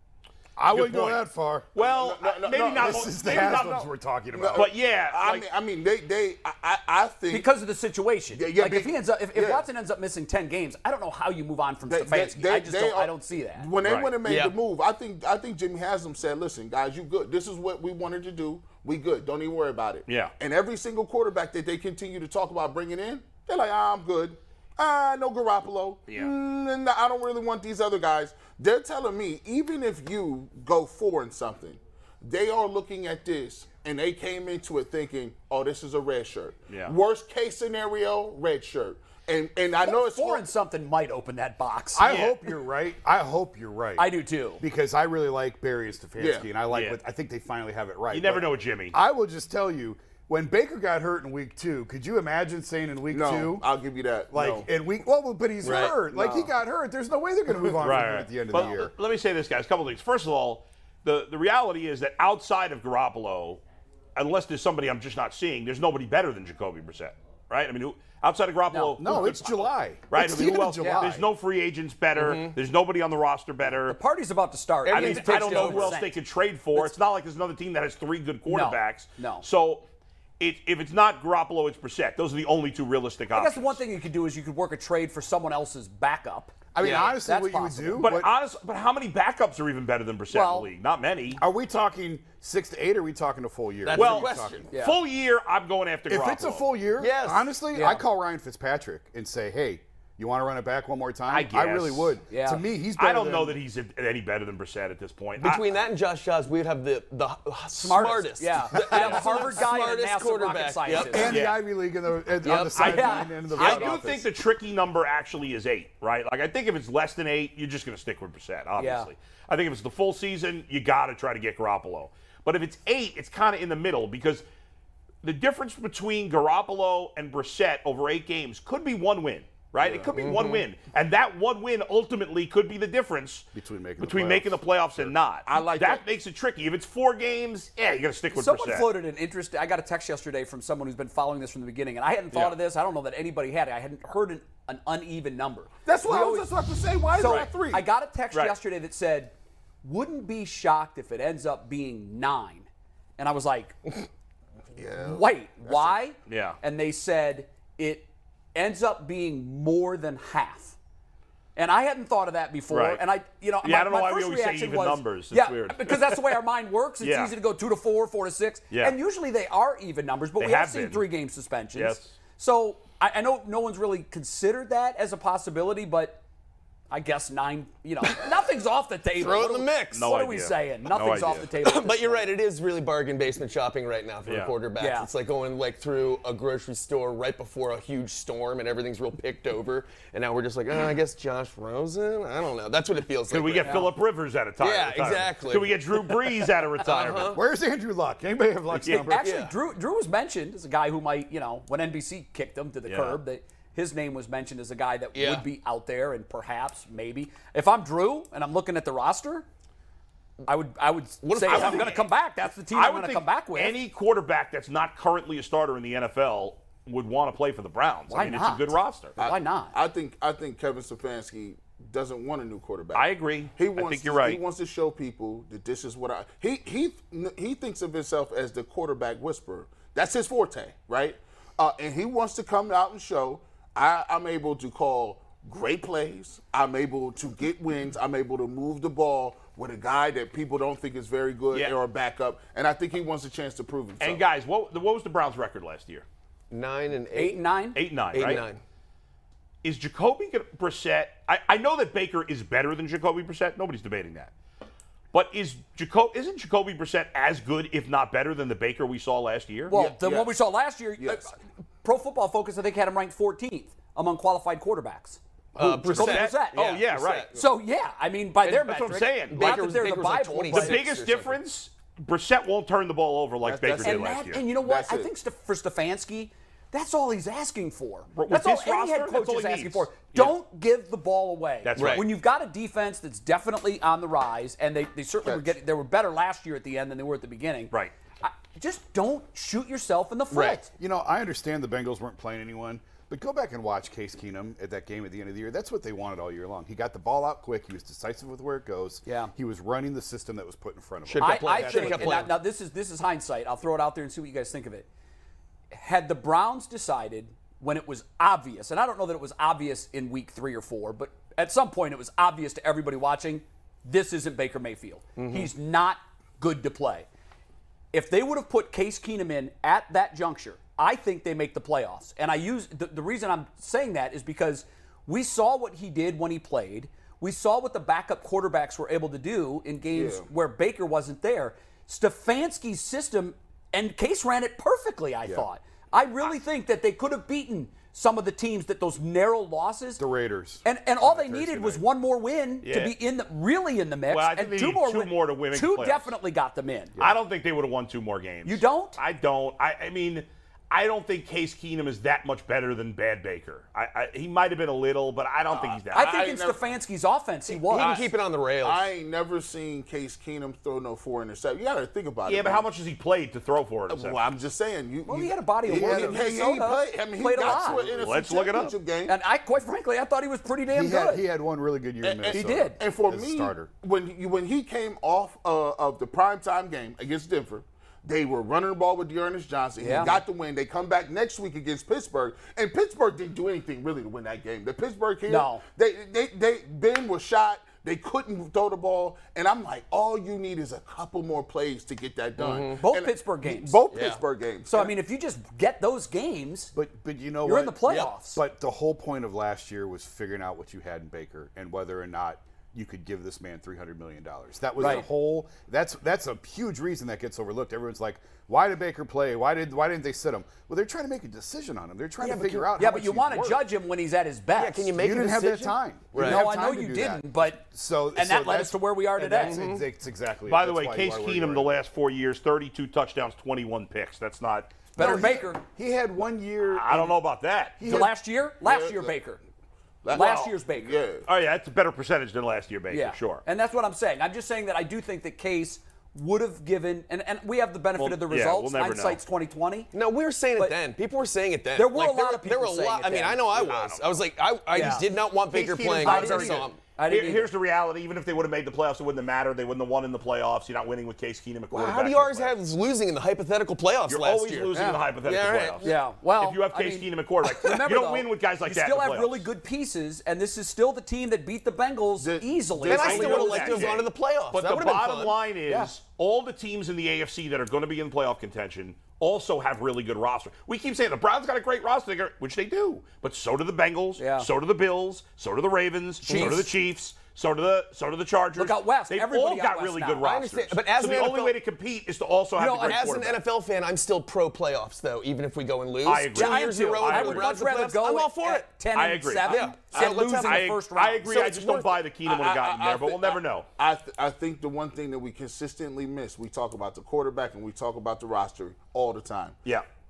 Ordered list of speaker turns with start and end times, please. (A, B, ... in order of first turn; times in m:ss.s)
0:00.6-0:01.7 A
0:00.7-0:03.9 B
0:01.8-0:03.7 C
0:02.7-0:04.7 A
0:04.3-0:07.5 C
0:04.5-0:05.4 B
0:07.3-0:13.7 D
0:08.3-0:09.6 C
0:11.9-0:40.4 C
0:13.8-0:14.1 B
0:14.2-0:14.6 E
0:20.1-0:20.3 B
0:36.7-0:36.9 B
0:39.8-0:42.2 D
0:41.9-0:53.7 A
0:42.0-0:42.4 B
0:44.0-0:44.6 D
0:46.2-0:46.5 C
0:46.7-0:47.0 B
0:48.1-0:49.0 B
0:53.1-0:54.7 C
0:54.3-0:58.9 A
0:55.6-0:56.0 E
0:56.1-0:56.5 C
0:57.8-1:03.6 B
1:04.1-1:14.0 B
1:08.7-1:09.2 D
1:09.0-1:11.2 A
1:10.8-1:11.1 D
1:12.1-1:12.6 E
1:13.7-1:16.2 D
1:14.8-1:16.0 E
1:14.9-1:19.8 B
1:18.5-1:19.4 D
1:20.4-1:23.8 B
1:23.3-1:28.1 D
1:26.7-1:28.3 A
1:26.8-1:27.1 E
1:28.0-1:31.4 B
1:30.3-1:30.7 D
1:31.4-1:34.7 A
1:33.8-1:34.7 E
1:33.9-1:36.7 B
1:34.7-1:35.0 D
1:36.1-1:43.6 A
1:37.0-1:37.5 E
1:37.7-1:38.0 D
1:41.3-1:42.6 D
1:41.6-1:41.9 B
1:43.0-1:45.7 B
1:45.4-1:51.3 E
1:47.7-1:51.3 D
1:51.1-1:54.3 A
1:51.2-1:51.6 B
1:52.4-1:53.8 E
1:52.7-1:53.9 D
1:53.5-2:04.4 B
1:58.8-1:59.1 D
2:05.2-2:13.4 B
2:09.8-2:10.1 C
2:10.2-2:10.6 E
2:13.5-2:15.1 A
2:14.0-2:18.9 B
2:15.5-2:16.0 C
2:18.3-2:26.5 D
2:22.3-2:22.6 B
2:25.8-2:27.8 C
2:27.1-2:34.0 D
2:27.2-2:27.5 B
2:34.8-2:36.0 C
2:35.0-2:40.8 D
2:36.3-2:36.6 B
2:41.6-2:56.2 D
2:42.7-2:43.0 B
2:43.6-2:46.4 B
2:47.0-2:47.3 B
2:50.4-2:51.1 B
2:51.7-2:52.1 B
2:56.9-3:02.3 D
2:59.1-3:00.1 E
2:59.9-3:01.5 B
3:01.5-3:13.9 E
3:04.2-3:04.5 B
3:04.8-3:05.1 D
3:13.3-3:17.4 B
3:13.6-3:13.9 D
3:14.6-3:17.4 E
3:17.3-3:19.3 A
3:18.8-3:19.1 B
3:19.0-3:29.4 D
3:19.2-3:19.5 E
3:22.9-3:23.2 B
3:25.1-3:25.4 E
3:30.4-3:33.8 D
3:31.2-3:32.1 E
3:31.4-3:32.1 B
3:32.7-3:39.2 B
3:38.1-3:39.7 D
3:39.2-4:04.2 C
3:42.9-3:44.4 B
4:04.0-4:06.0 B
4:06.5-4:07.4 E
4:07.1-4:07.8 D
4:07.7-4:08.4 B
4:08.1-4:08.6 E
4:09.6-4:14.3 B
4:15.1-4:19.7 B
4:19.7-4:26.6 D
4:19.7-4:20.4 C
4:21.0-4:21.3 C
4:25.5-4:27.4 E
4:25.9-4:27.3 B
4:27.3-4:30.8 D
4:28.5-4:29.6 B
4:29.3-4:31.4 E
4:30.5-4:34.4 B
4:33.4-4:35.1 C
4:33.8-4:50.7 D
4:38.1-4:40.3 B
4:41.6-4:42.1 B
4:41.8-4:42.1 E
4:50.3-4:50.6 E
4:50.7-5:02.4 A
4:59.0-4:59.3 D
5:01.0-5:02.4 E
5:01.2-5:04.9 D
5:05.7-5:17.1 D
5:15.2-5:15.5 E
5:17.9-5:40.0 D
5:29.9-5:30.2 C
5:40.0-5:41.8 A
5:40.6-5:46.9 D
5:42.6-5:42.9 B
5:44.1-5:46.1 B
5:47.0-5:56.2 B
5:48.4-5:49.0 D
5:55.5-5:56.6 C
5:55.9-5:58.0 D
5:57.6-5:58.9 E
5:57.7-5:58.1 C
5:58.6-6:02.6 C
6:02.2-6:04.2 B
6:03.9-6:09.2 C
6:05.0-6:08.0 D
6:05.7-6:06.2 A
6:07.4-6:07.9 A
6:08.0-6:08.7 B
6:09.1-6:11.2 D
6:10.7-6:13.7 A
6:12.0-6:34.9 C
6:12.3-6:12.8 D
6:19.8-6:20.2 D
6:25.3-6:25.6 D
6:32.4-6:32.8 E
6:32.8-6:33.8 D
6:33.9-6:34.2 E
6:34.7-6:36.7 D
6:36.7-6:53.7 A
6:37.4-6:38.4 D
6:44.8-6:45.1 D
6:52.2-6:52.7 E
6:52.8-6:54.9 D
6:54.5-6:56.4 E
6:54.9-7:01.8 A
6:56.1-6:57.6 D
6:58.1-6:59.6 D
6:59.4-6:59.8 E
7:00.5-7:04.9 B
7:04.9-7:05.6 D
7:05.0-7:07.2 A
7:06.7-7:07.8 B
7:07.8-7:08.1 A
7:07.8-7:08.1 C
7:07.8-7:09.4 D
7:08.6-7:09.1 C
7:10.0-7:11.2 C
7:10.1-7:11.0 D
7:10.1-7:10.5 B
7:11.2-7:13.4 B
7:12.9-7:19.9 D
7:18.0-7:19.2 B
7:19.9-7:26.8 E
7:21.7-7:23.4 D
7:23.4-7:24.1 B
7:24.7-7:25.1 D
7:25.5-7:32.6 B
7:26.0-7:27.5 D
7:31.7-7:36.0 E
7:34.1-7:39.4 B
7:35.8-7:43.9 D
7:42.2-7:43.9 C
7:42.9-7:45.4 E
7:42.9-8:03.4 B
7:45.7-7:45.9 D
7:54.2-7:54.5 D
7:56.2-7:56.7 D
7:56.2-7:56.7 E
7:58.6-8:00.3 D
8:00.2-8:01.6 E
8:02.6-8:03.1 D
8:02.7-8:08.7 E
8:06.0-8:07.5 B
8:06.3-8:11.3 D
8:08.9-8:13.7 B
8:09.4-8:10.7 E
8:11.3-8:12.0 E
8:12.2-8:19.6 C